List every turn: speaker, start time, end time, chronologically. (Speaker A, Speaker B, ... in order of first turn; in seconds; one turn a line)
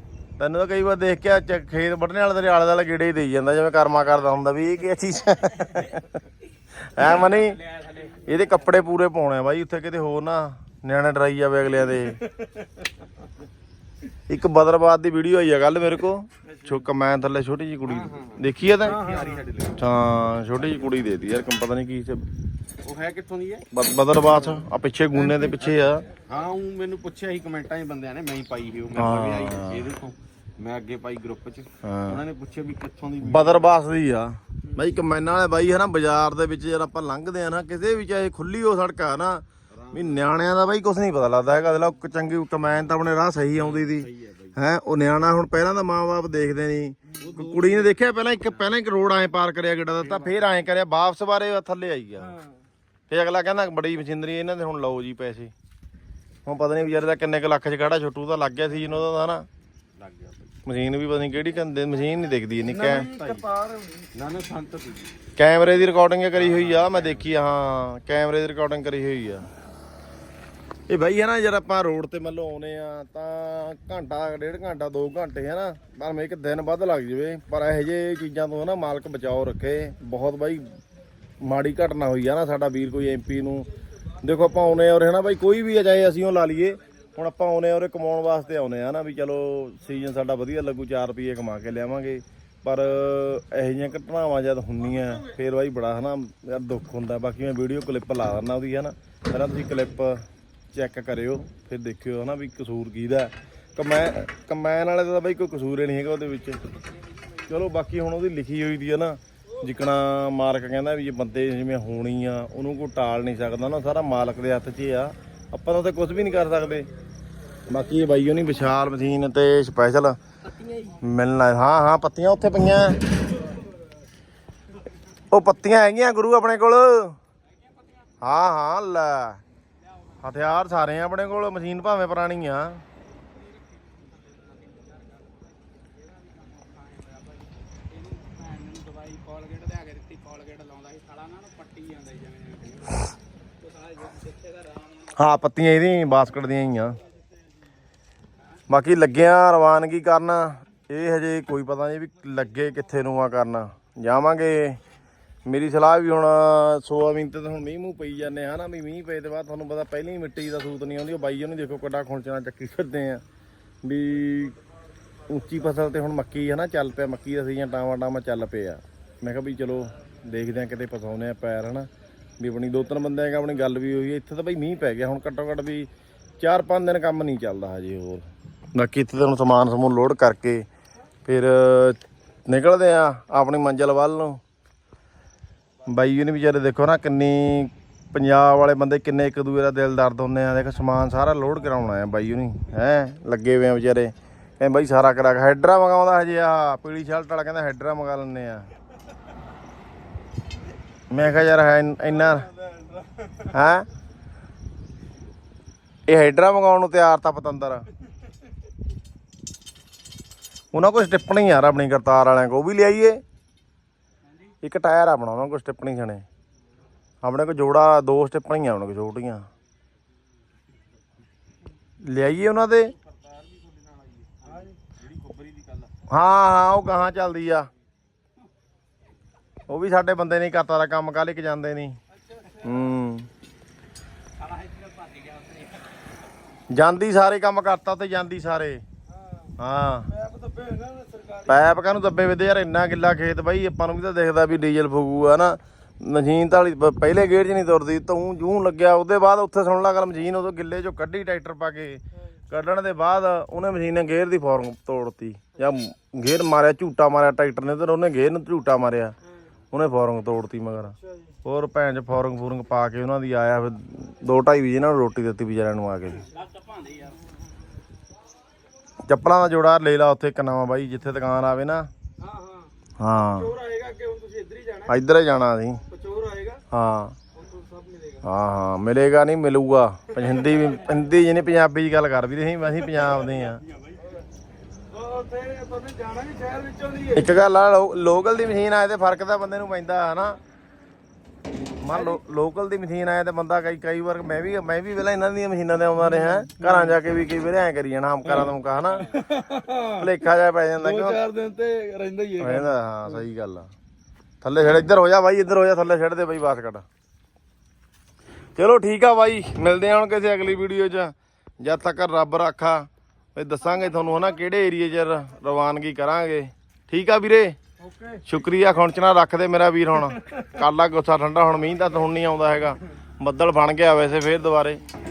Speaker A: 0.4-6.0
Speaker A: 6.9-7.6
Speaker B: 7.0-8.5
Speaker A: 8.2-12.2
Speaker A: 14.3-19.0
Speaker C: 17.8-19.9
Speaker D: 19.0-19.4
Speaker A: 19.8-22.2
Speaker C: 22.8-23.7
Speaker A: 23.7-26.0
Speaker C: 24.3-24.6
Speaker C: 25.5-33.8
Speaker A: 28.9-29.9
Speaker A: 31.8-32.2
Speaker A: 33.2-52.4
Speaker C: 39.7-40.3
Speaker C: 43.6-44.6
Speaker D: 47.1-47.3
Speaker C: 47.2-47.9
Speaker D: 52.2-52.5
Speaker A: 53.1-55.5
Speaker A: 56.5-59.5
Speaker C: 60.0-60.5
Speaker A: 60.6-63.1
Speaker D: 62.6-64.1
Speaker C: 62.9-63.5
Speaker C: 64.2-65.1
Speaker A: 65.4-69.5
Speaker C: 66.3-67.3
Speaker A: 70.9-80.8
Speaker A: 81.4-83.7
Speaker A: 84.2-106.6
Speaker A: 107.5-116.9
Speaker A: 117.7-120.2
Speaker A: 120.8-123.0
Speaker A: 125.3-127.2
Speaker A: 128.2-129.4
Speaker A: 130.2-132.8
Speaker B: 133.9-135.3
Speaker B: 136.0-143.0
Speaker B: 143.7-145.1
Speaker A: 145.2-147.0
Speaker A: 148.7-154.8
Speaker A: 155.4-163.2
Speaker A: 163.8-164.6
Speaker A: 165.3-171.9
Speaker A: 172.4-175.9
Speaker A: 176.4-180.7
Speaker A: 181.2-184.4
Speaker A: 185.8-198.7
Speaker A: 201.1-202.5
Speaker D: 202.7-203.3
Speaker A: 203.5-203.9
Speaker A: 206.1-207.8
Speaker A: 210.7-213.2
Speaker A: 214.6-216.2
Speaker A: 217.2-219.4
Speaker A: 222.0-222.9
Speaker C: 223.1-225.9
Speaker A: 226.1-227.7
Speaker A: 229.7-232.0
Speaker D: 232.3-232.7
Speaker A: 232.6-233.3
Speaker B: 234.4-235.9
Speaker A: 236.7-238.8
Speaker D: 239.1-239.5
Speaker A: 239.6-240.1
Speaker D: 240.1-241.6
Speaker A: 241.5-259.1
Speaker A: 259.7-266.2
Speaker D: 261.1-261.3
Speaker B: 266.4-267.1
Speaker A: 269.0-271.9
Speaker D: 272.2-275.0
Speaker A: 273.0-273.5
Speaker A: 274.9-275.8
Speaker D: 275.9-276.6
Speaker A: 276.7-277.1
Speaker D: 277.3-278.2
Speaker A: 278.2-283.6
Speaker D: 280.1-280.9
Speaker D: 284.9-287.2
Speaker A: 287.1-290.4
Speaker A: 291.8-299.1
Speaker D: 296.3-296.9
Speaker D: 299.0-300.1
Speaker A: 300.0-301.2
Speaker D: 300.8-303.2
Speaker A: 302.4-303.7
Speaker A: 304.4-306.8
Speaker A: 308.6-317.6
Speaker D: 317.8-318.3
Speaker A: 318.2-324.8